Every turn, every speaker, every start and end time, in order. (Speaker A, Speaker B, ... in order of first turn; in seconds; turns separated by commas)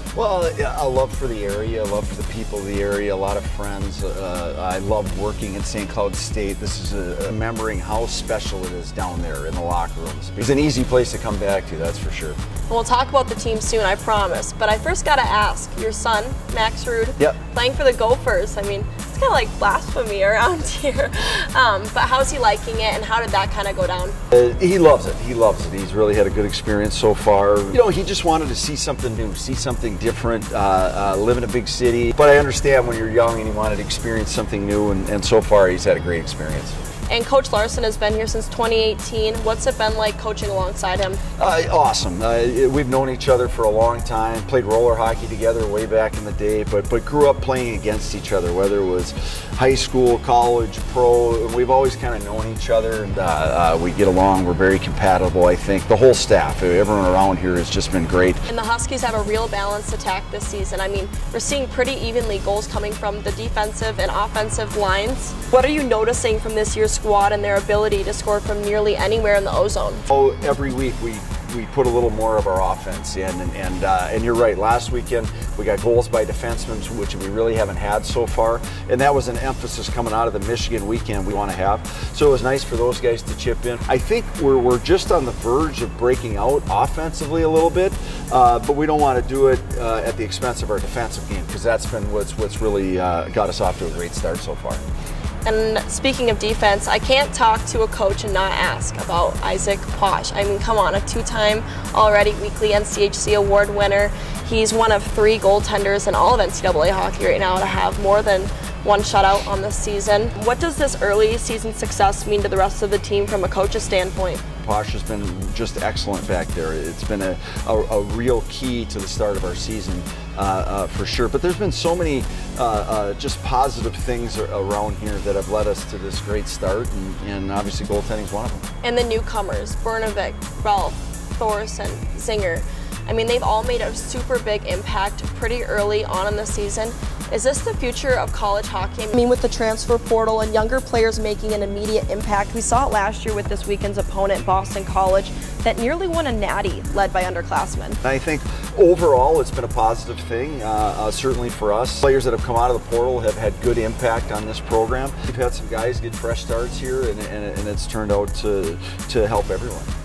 Speaker A: 0.1-12.4, Speaker B: 12.7-24.2, Speaker A: 24.3-36.8, Speaker B: 37.1-41.2, Speaker A: 41.4-58.4, Speaker B: 58.5-70.0, Speaker A: 70.1-94.8, Speaker B: 95.4-114.4, Speaker A: 114.6-128.6, Speaker B: 128.8-148.0, Speaker A: 148.0-159.9